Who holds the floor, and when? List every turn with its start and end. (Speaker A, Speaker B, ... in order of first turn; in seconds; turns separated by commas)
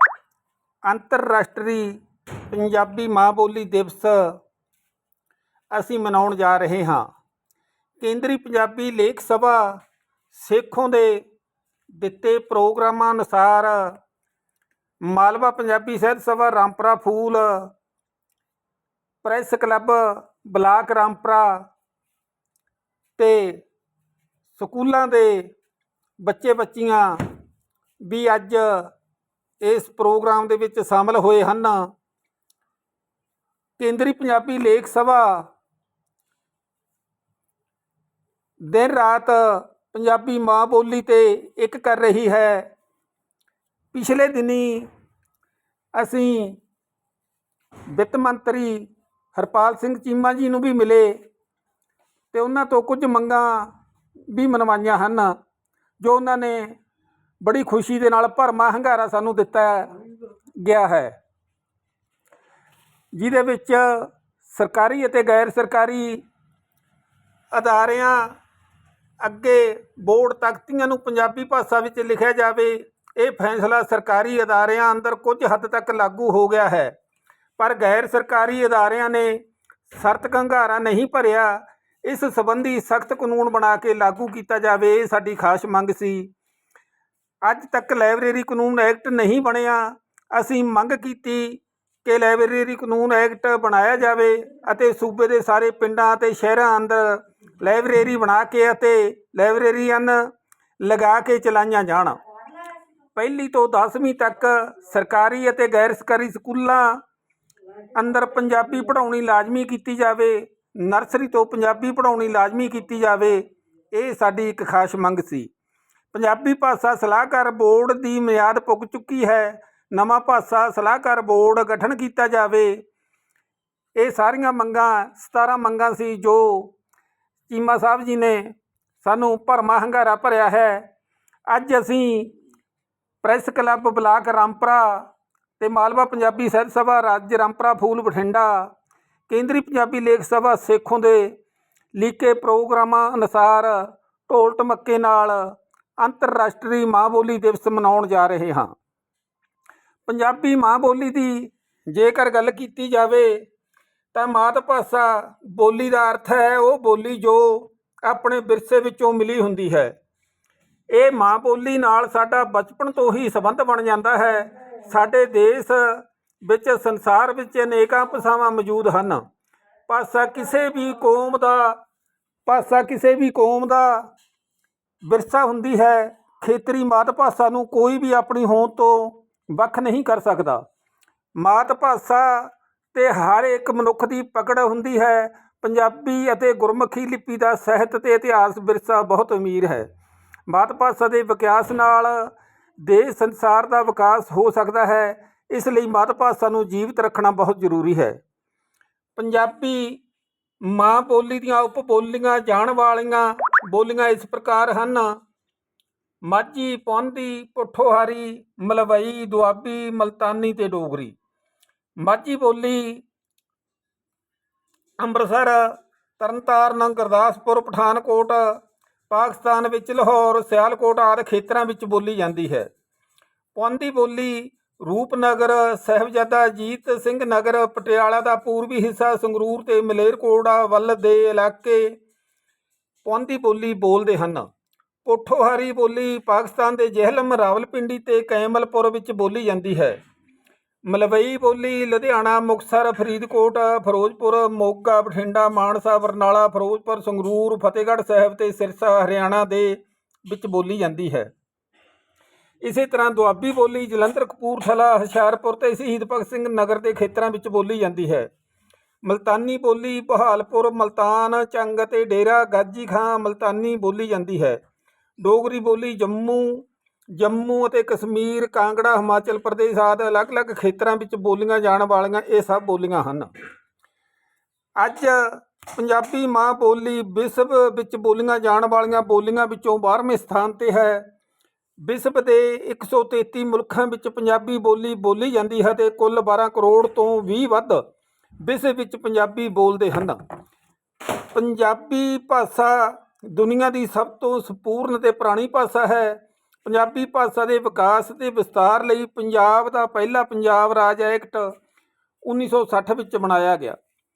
Speaker A: 0.9-4.4, Speaker A: 5.7-7.1, Speaker A: 8.0-11.2, Speaker A: 11.9-14.0, Speaker A: 15.1-17.7, Speaker A: 19.2-21.7, Speaker A: 23.2-23.6, Speaker A: 24.6-25.5, Speaker A: 26.2-27.2, Speaker A: 28.0-28.9, Speaker A: 29.6-31.9, Speaker A: 33.8-35.5, Speaker A: 38.6-42.7, Speaker A: 43.9-44.9, Speaker A: 46.0-46.6, Speaker A: 47.9-51.2, Speaker A: 52.3-53.7, Speaker A: 54.3-55.4, Speaker A: 56.0-56.8, Speaker A: 57.4-60.0, Speaker A: 60.6-61.1, Speaker A: 63.1-66.2, Speaker A: 67.5-68.3, Speaker A: 69.2-76.9, Speaker A: 77.6-79.4, Speaker A: 79.9-86.3, Speaker A: 87.5-100.3, Speaker A: 100.8-102.2, Speaker A: 103.2-107.0, Speaker A: 107.9-115.5, Speaker A: 116.1-122.8, Speaker A: 124.0-126.7, Speaker A: 127.5-130.9, Speaker A: 131.5-132.3, Speaker A: 133.2-138.7, Speaker A: 139.3-141.3, Speaker A: 141.9-148.7, Speaker A: 150.1-153.4, Speaker A: 154.1-159.9, Speaker A: 160.9-169.2, Speaker A: 169.9-171.8, Speaker A: 172.5-174.1, Speaker A: 175.1-180.6, Speaker A: 181.4-189.9, Speaker A: 190.5-192.3, Speaker A: 192.8-198.2, Speaker A: 199.2-200.0, Speaker A: 200.7-205.1, Speaker A: 206.3-211.2, Speaker A: 212.0-213.0, Speaker A: 215.0-218.4, Speaker A: 219.1-222.7, Speaker A: 223.6-232.0, Speaker A: 233.1-234.5, Speaker A: 235.1-240.0, Speaker A: 240.9-251.3, Speaker A: 252.6-258.3, Speaker A: 259.1-264.6, Speaker A: 265.2-273.3, Speaker A: 274.8-281.1, Speaker A: 281.8-287.8, Speaker A: 288.4-290.2, Speaker A: 291.3-301.5, Speaker A: 302.2-303.8